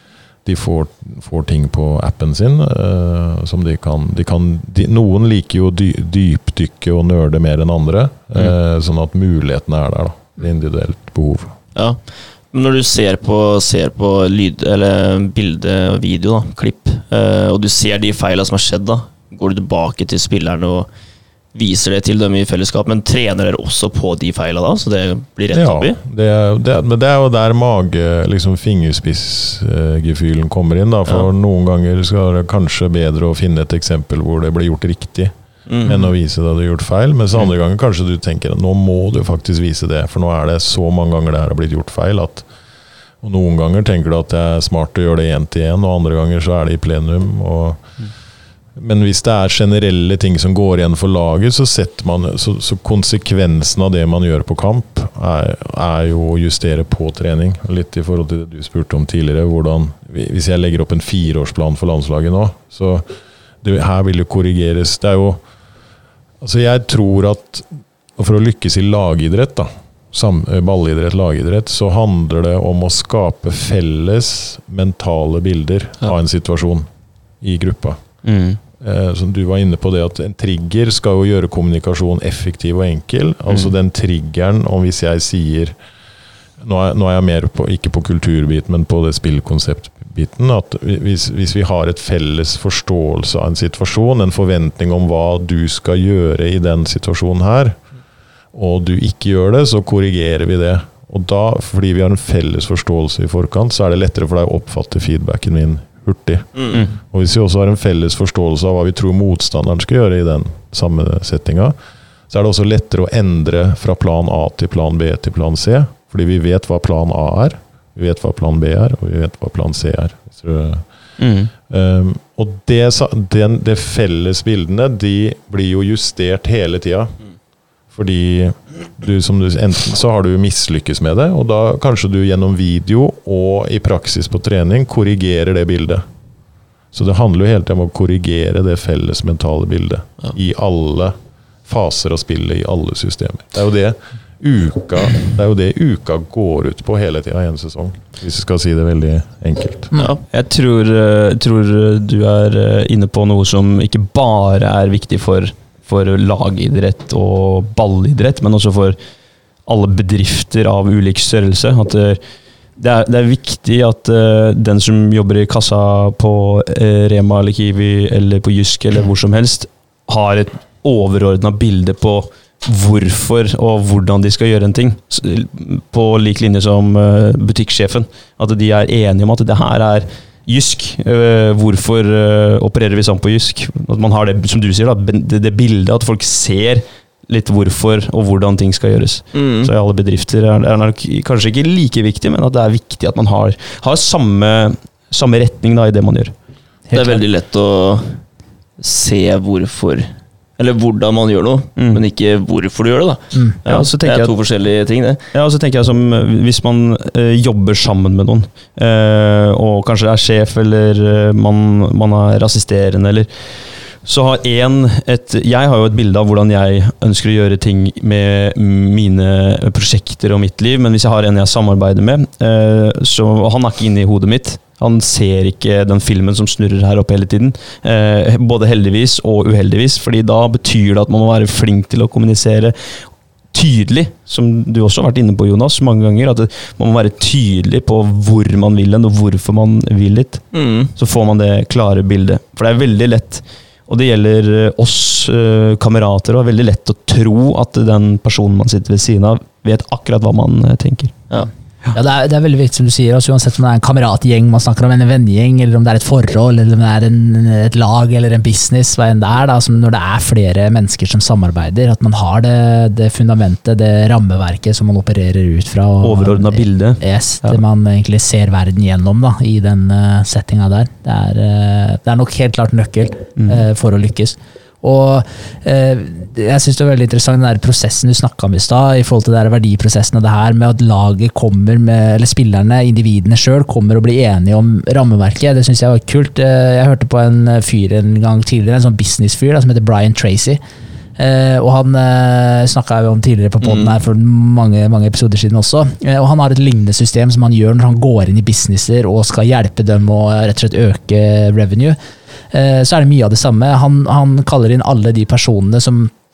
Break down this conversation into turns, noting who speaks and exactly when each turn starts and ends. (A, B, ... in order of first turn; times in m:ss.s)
0:00.4-0:11.6 A
0:11.7-0:20.9 B
0:21.5-0:26.0 B
0:25.5-0:42.5 A
0:35.7-0:36.1 B
0:43.2-0:47.9 A
0:48.8-1:03.0 A
1:03.6-1:05.4 A
1:06.4-1:16.8 A
1:17.4-1:18.0 A
1:18.2-1:18.6 C
1:18.8-1:25.8 A
1:26.6-1:37.8 A
1:38.5-1:51.8 A
1:46.5-1:46.8 B
1:52.3-2:00.9 A
2:01.2-2:01.5 C
2:01.7-2:07.2 A
2:07.9-2:16.0 A
2:16.9-2:21.1 A
2:21.6-2:29.9 A
2:29.9-2:30.2 B
2:30.3-2:39.0 C
2:39.6-2:42.2 C
2:42.8-3:16.3 C
3:09.3-3:09.7 B
3:16.9-3:17.2 D
3:16.9-3:18.2 B
3:18.8-3:25.2 B
3:21.8-3:22.0 C
3:23.6-3:24.3 C
3:25.3-3:33.3 C
3:34.0-3:53.0 C
3:53.5-4:11.1 C
4:00.5-4:00.9 B
4:11.9-4:50.6 D
4:26.0-4:27.6 C
4:33.4-4:33.6 C
4:51.2-5:02.0 D
4:53.6-4:54.0 B
5:02.5-5:06.1 D